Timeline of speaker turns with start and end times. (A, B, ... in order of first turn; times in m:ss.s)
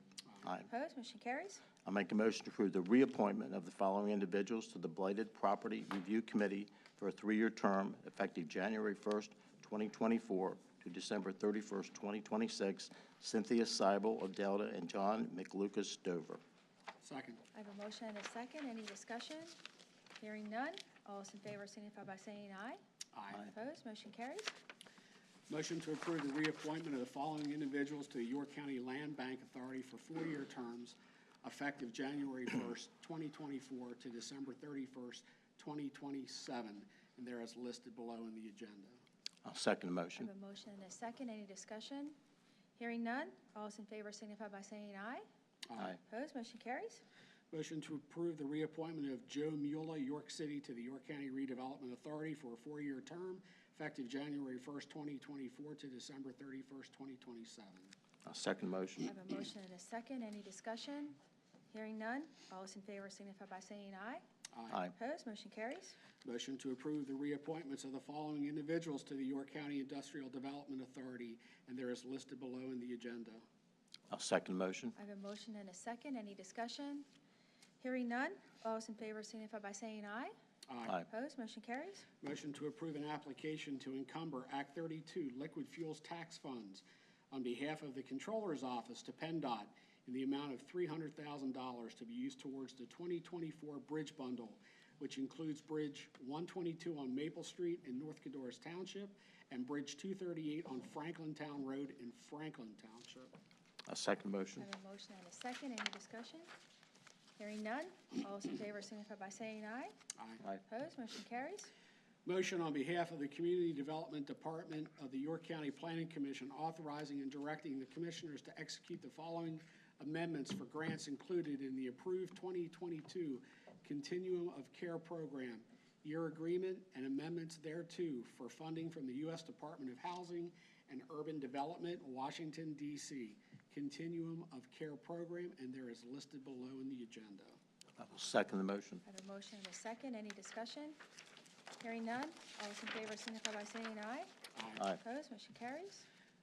0:00.6-0:01.6 A
0:01.8-0:16.4 B
0:17.0-0:17.4 C
0:17.5-0:19.5 A
0:20.2-0:22.8 A
0:23.1-0:23.5 C
0:23.3-0:24.5 A
0:25.5-0:39.0 C
0:39.4-0:40.3 B
0:40.2-0:42.1 A
0:42.8-0:45.2 A
0:45.9-0:47.0 A
0:47.5-0:57.9 C
0:58.2-0:59.1 B
0:59.1-1:01.2 A
1:01.7-1:04.2 A
1:04.5-1:04.8 C
1:04.9-1:06.0 A
1:06.2-1:13.4 C
1:14.1-1:14.9 B
1:15.0-1:17.0 A
1:17.8-1:20.3 A
1:20.7-1:20.9 C
1:20.9-1:22.1 A
1:22.2-1:43.3 C
1:43.8-1:44.7 B
1:44.6-1:46.5 A
1:47.4-1:49.9 A
1:50.2-1:50.4 C
1:50.6-1:51.7 A
1:52.2-2:17.6 C
2:18.0-2:19.0 B
2:19.0-2:21.0 A
2:21.8-2:26.0 A
2:24.5-2:24.8 C